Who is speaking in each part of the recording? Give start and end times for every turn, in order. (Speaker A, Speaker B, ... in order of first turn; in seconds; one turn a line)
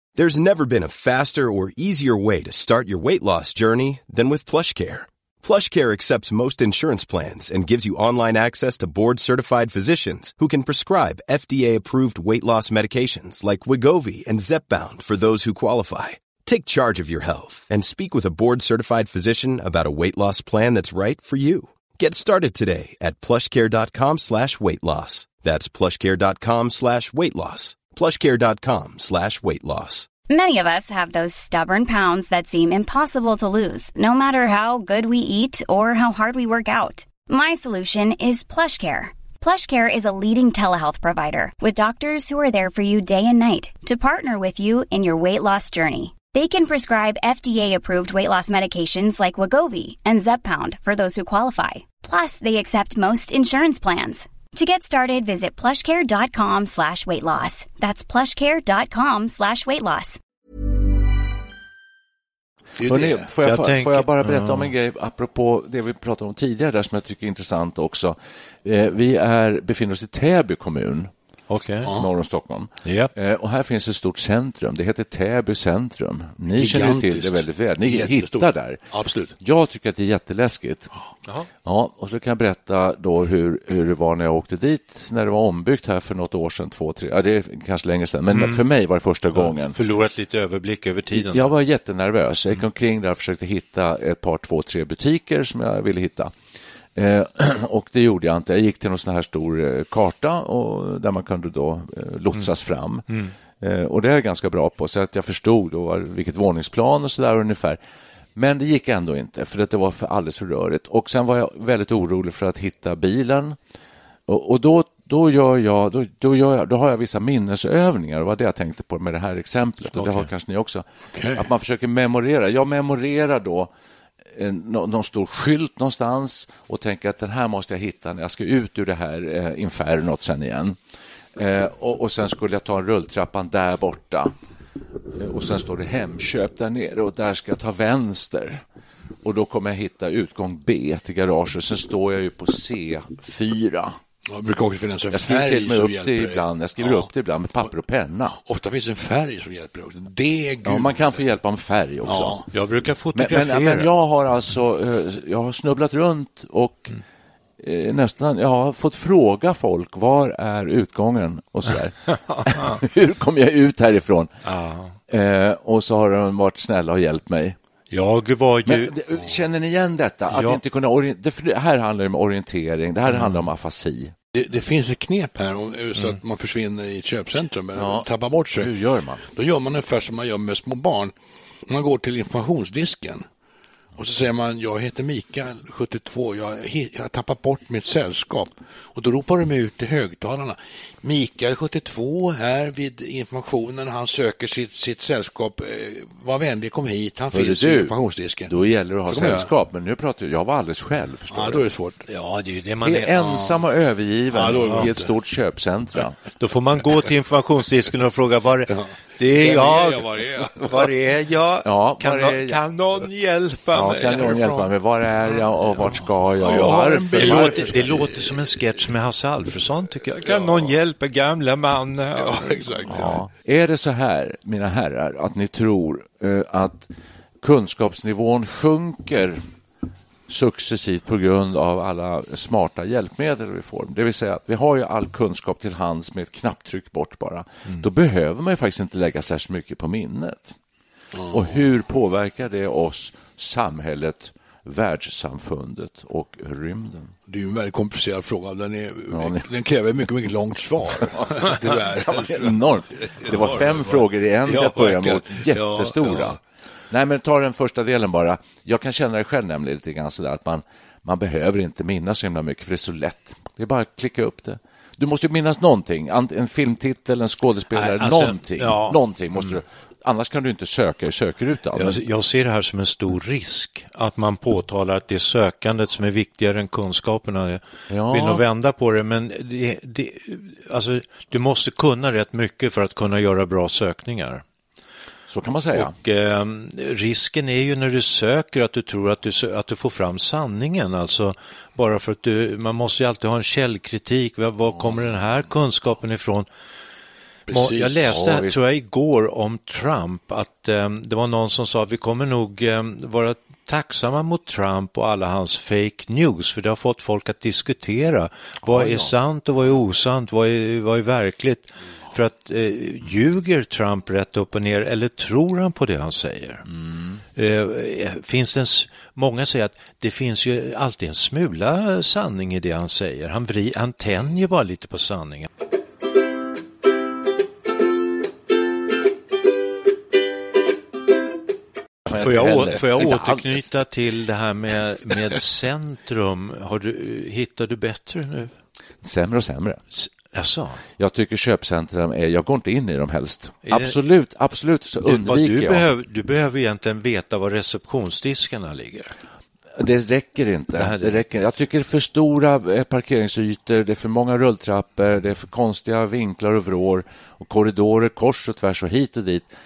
Speaker A: 0.2-30.1
Speaker B: 30.3-60.2
Speaker C: 62.8-63.3
Speaker D: 62.9-71.1
Speaker E: 63.4-64.7
Speaker E: 71.5-71.9
Speaker D: 71.9-78.8
Speaker E: 72.8-73.1
Speaker C: 76.5-79.3
Speaker D: 79.4-80.9
Speaker D: 81.6-89.8
Speaker E: 88.3-88.6
Speaker E: 89.4-91.5
Speaker D: 91.1-96.3
Speaker D: 97.0-103.1
Speaker D: 103.6-107.8
Speaker D: 108.4-113.6
Speaker D: 114.3-123.7
Speaker E: 120.0-120.3
Speaker C: 121.1-121.5
Speaker D: 124.3-130.8
Speaker D: 131.4-134.3
Speaker D: 135.2-138.6
Speaker D: 139.2-144.0
Speaker C: 144.3-147.1
Speaker D: 145.1-148.4
Speaker C: 148.3-151.1
Speaker D: 150.6-152.4
Speaker C: 152.0-152.4
Speaker E: 152.5-153.9
Speaker D: 153.2-156.9
Speaker D: 157.6-164.3
Speaker E: 162.3-162.8
Speaker E: 164.4-164.9
Speaker D: 165.1-167.6
Speaker E: 167.9-168.9
Speaker D: 168.7-174.1
Speaker E: 170.3-170.6
Speaker E: 173.1-173.4
Speaker C: 174.3-178.7
Speaker D: 177.8-179.2
Speaker C: 179.3-181.1
Speaker C: 181.7-183.3
Speaker C: 184.0-198.5
Speaker D: 197.3-197.9
Speaker D: 198.5-201.7
Speaker C: 199.1-199.5
Speaker C: 201.3-202.0
Speaker E: 202.1-203.4
Speaker D: 202.8-206.2
Speaker C: 204.3-205.1
Speaker E: 204.6-204.9
Speaker E: 206.4-214.7
Speaker C: 208.7-210.9
Speaker D: 211.7-212.6
Speaker D: 213.7-217.9
Speaker C: 216.4-218.6
Speaker E: 217.2-222.9
Speaker C: 220.2-220.8
Speaker C: 222.2-223.2
Speaker D: 222.9-226.9
Speaker D: 227.4-229.4
Speaker D: 230.3-240.6
Speaker C: 241.2-241.6
Speaker D: 241.3-247.1
Speaker C: 247.3-256.4
Speaker D: 249.1-249.5
Speaker D: 251.2-256.4
Speaker D: 256.9-272.0
Speaker E: 267.7-269.6
Speaker E: 271.8-284.4
Speaker D: 277.9-278.4
Speaker D: 285.3-285.9
Speaker E: 285.7-296.5
Speaker C: 297.5-298.0
Speaker E: 297.5-316.6
Speaker D: 298.1-298.6
Speaker D: 308.6-309.1
Speaker D: 316.7-317.2
Speaker E: 317.4-325.5
Speaker D: 332.1-333.6
Speaker E: 332.1-338.6
Speaker D: 339.0-339.8
Speaker E: 339.9-340.8
Speaker D: 341.0-345.9
Speaker E: 343.7-344.0
Speaker E: 345.0-349.1
Speaker D: 349.8-359.5
Speaker E: 350.8-351.2